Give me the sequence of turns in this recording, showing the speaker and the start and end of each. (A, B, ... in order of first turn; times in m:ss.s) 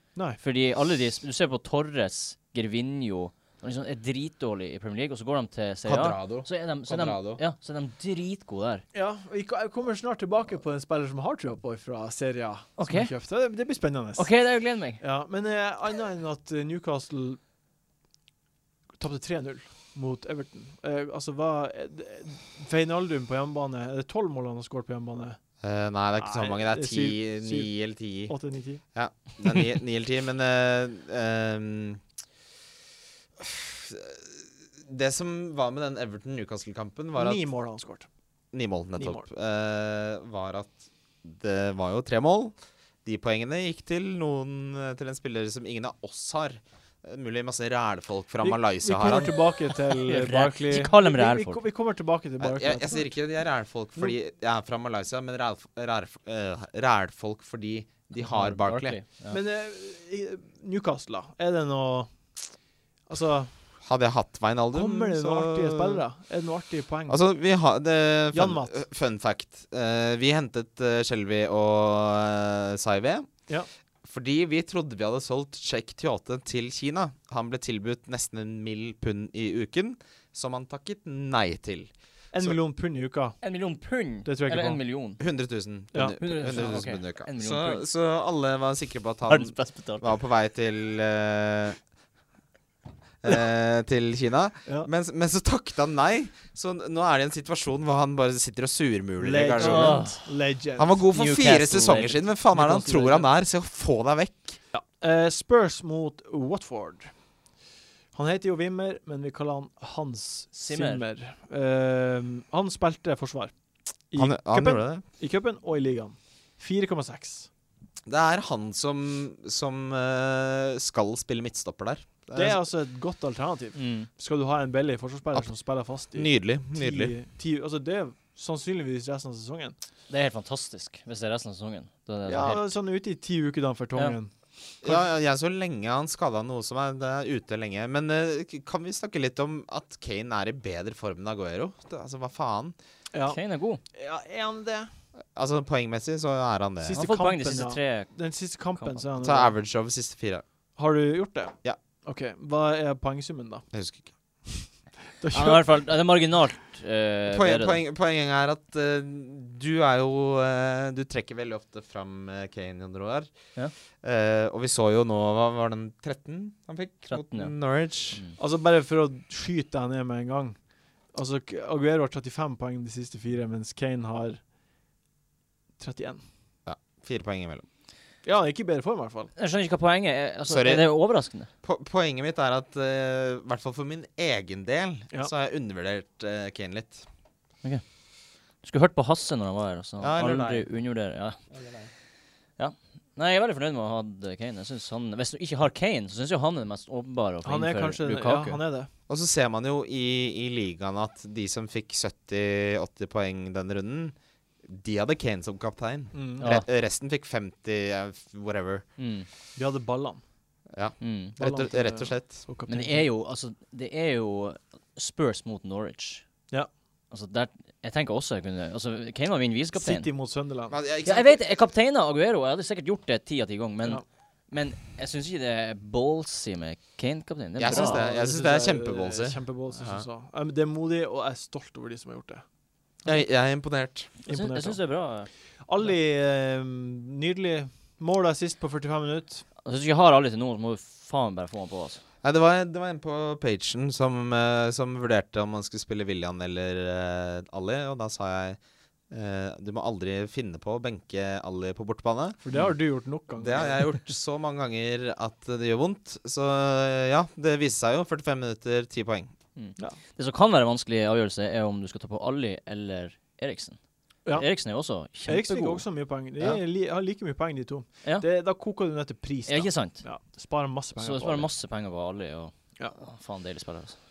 0:00.4-0:08.8 A
0:05.9-0:07.4 B
0:08.9-0:14.3 C
0:12.8-0:13.1 A
0:14.2-0:15.0 A
0:15.0-0:17.4 C
0:19.0-0:25.4 C
0:25.6-0:28.3 B
0:26.2-0:27.8 C
0:28.3-0:28.8 C
0:28.9-0:32.0 B
0:33.4-0:37.4 B
0:37.2-0:38.1 C
0:38.5-0:49.4 B
0:39.0-0:39.2 C
0:48.4-0:53.1 C
0:50.0-0:51.6 A
0:52.4-0:59.0 B
0:58.2-0:59.4 A
0:59.3-1:02.4 C
1:03.1-1:03.5 C
1:03.8-1:06.0 B
1:04.7-1:07.2 C
1:07.1-1:13.3 B
1:08.3-1:08.8 C
1:14.0-1:22.6 B
1:22.3-1:23.4 C
1:23.4-1:25.2 A
1:24.2-1:24.8 C
1:25.2-1:31.8 B
1:26.2-1:27.8 A
1:29.3-1:30.1 A
1:33.2-1:40.1 B
1:39.2-1:40.9 C
1:39.6-1:40.2 A
1:40.8-1:44.6 B
1:41.1-1:43.1 A
1:42.5-1:43.2 C
1:44.7-1:47.2 C
1:48.1-1:53.5 C
1:50.6-1:51.0 A
1:54.1-1:57.5 C
1:54.2-1:55.0 B
1:58.1-2:02.6 B
2:02.3-2:09.8 C
2:03.8-2:04.1 A
2:06.1-2:07.2 B
2:10.1-2:12.7 A
2:12.3-2:15.0 C
2:14.8-2:22.8 B
2:23.1-2:23.4 C
2:23.3-2:23.8 A
2:23.9-2:24.9 C
2:25.3-2:27.0 B
2:26.8-2:29.5 C
2:27.0-2:28.1 A
2:28.8-2:29.0 A
2:29.2-2:30.4 B
2:30.8-2:33.7 C
2:33.7-2:34.1 B
2:35.2-2:35.7 C
2:35.3-2:37.8 A
2:37.3-2:43.3 B
2:44.0-2:48.2 B
2:47.1-2:47.5 A
2:48.4-2:50.6 C
2:51.1-2:54.4 C
2:55.8-2:56.2 C
2:56.7-2:57.6 B
2:58.2-2:59.3 C
2:59.4-3:01.5 A
3:00.5-3:00.9 B
3:01.6-3:07.0 B
3:08.6-3:11.4 A
3:10.0-3:10.7 B
3:11.5-3:11.9 B
3:12.6-3:18.6 A
3:17.4-3:18.9 C
3:19.1-3:24.2 B
3:24.7-3:28.8 B
3:26.1-3:26.5 C
3:29.0-3:29.3 A
3:29.6-3:30.2 C
3:30.7-3:32.5 B
3:31.0-3:31.3 A
3:31.4-3:33.1 C
3:32.7-3:36.2 A
3:37.1-3:40.1 A
3:39.8-3:40.8 C
3:40.7-3:41.4 B
3:41.0-3:48.0 A
3:47.6-3:50.0 B
3:47.7-3:52.4 C
3:53.0-3:54.1 B
3:54.2-3:54.8 C
3:54.3-3:55.3 A
3:55.7-3:59.4 C
3:59.6-4:02.0 A
4:02.2-4:08.6 B
4:09.1-4:12.4 B
4:12.4-4:13.9 C
4:13.4-4:19.3 B
4:19.6-4:23.8 A
4:24.3-4:25.8 A
4:25.2-4:31.5 C
4:29.5-4:30.0 A
4:31.0-4:34.0 A